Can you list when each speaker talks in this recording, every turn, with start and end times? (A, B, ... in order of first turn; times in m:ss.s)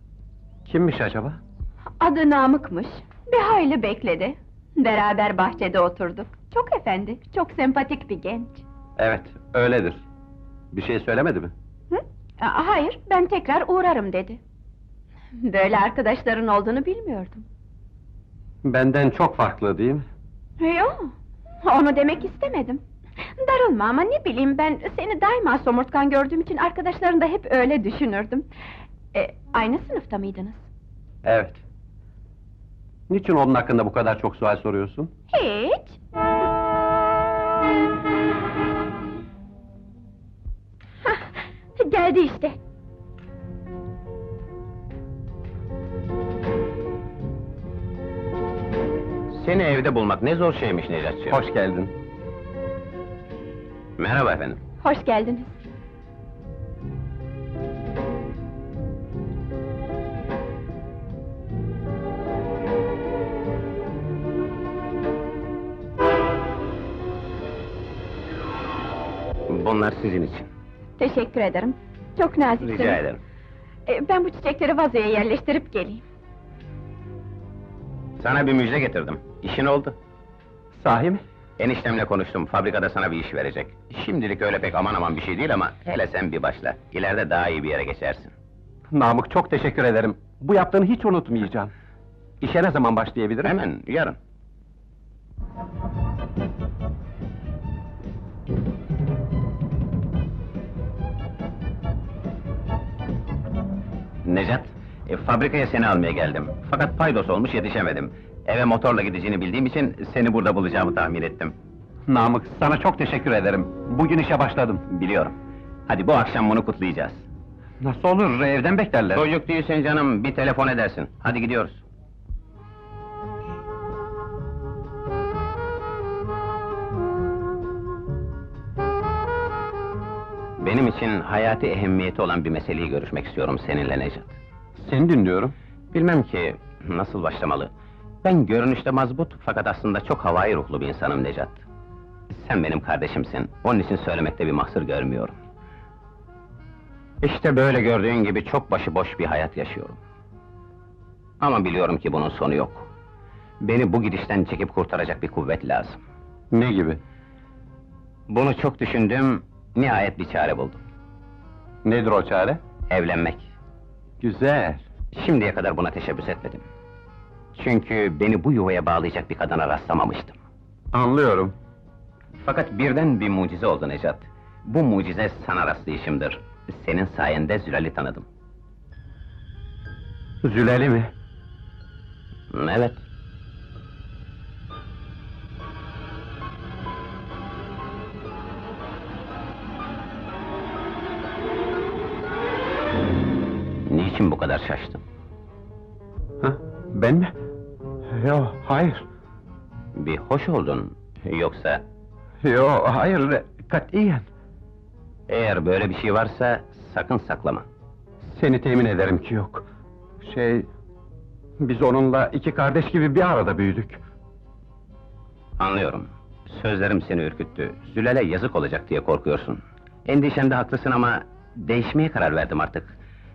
0:00.6-0:01.4 A
0:02.0-0:08.6 B
0:09.0-0:10.0 A
0:10.7-0:11.5 A
0:11.9-0:14.4 B
0:15.4-0:17.4 B
0:18.6-0:20.0 A
0:20.6-0:21.1 B
0:21.6-0:22.8 B
0:23.4-0:28.4 B
0:29.1-0:30.6 B
0:31.2-0:31.6 A
0:33.1-0:35.1 A
0:35.3-0:36.0 B
0:41.0-0:42.6 B
0:49.3-0:51.4 C
0:51.3-0:51.9 A
0:54.0-0:54.6 C
0:54.8-0:55.5 B
1:09.5-1:10.5 C
1:11.0-1:13.0 B
1:12.6-1:13.2 C
1:13.8-1:16.0 B
1:18.2-1:20.0 C
1:20.8-1:21.2 A
1:21.6-1:28.3 C
1:28.9-1:31.7 A
1:32.4-1:33.5 A
1:33.4-1:34.2 C
1:44.2-1:51.5 C
1:52.1-1:54.8 A
1:54.9-1:55.3 C
1:55.9-1:57.2 C
1:57.8-1:59.2 A
1:59.2-2:01.8 C
2:10.6-2:14.4 C
2:14.8-2:15.5 A
2:15.9-2:17.7 C
2:18.2-2:21.6 C
2:22.3-2:25.4 C
2:27.2-2:30.0 C
2:31.4-2:32.9 C
2:33.6-2:36.0 C
2:36.5-2:37.0 A
2:38.3-2:40.8 C
2:41.8-2:42.6 A
2:42.9-2:43.5 C
2:44.2-2:44.8 A
2:45.1-2:46.6 C
2:47.5-2:50.4 C
2:50.9-2:51.5 A
2:52.4-2:58.3 C
3:00.4-3:01.1 A
3:02.5-3:03.0 C
3:13.9-3:15.0 C
3:16.4-3:17.3 A
3:18.1-3:19.0 A
3:19.9-3:21.8 C
3:22.4-3:24.3 A
3:25.3-3:27.6 C
3:28.2-3:29.6 A
3:30.2-3:30.7 A
3:31.6-3:34.0 A
3:35.6-3:43.0 C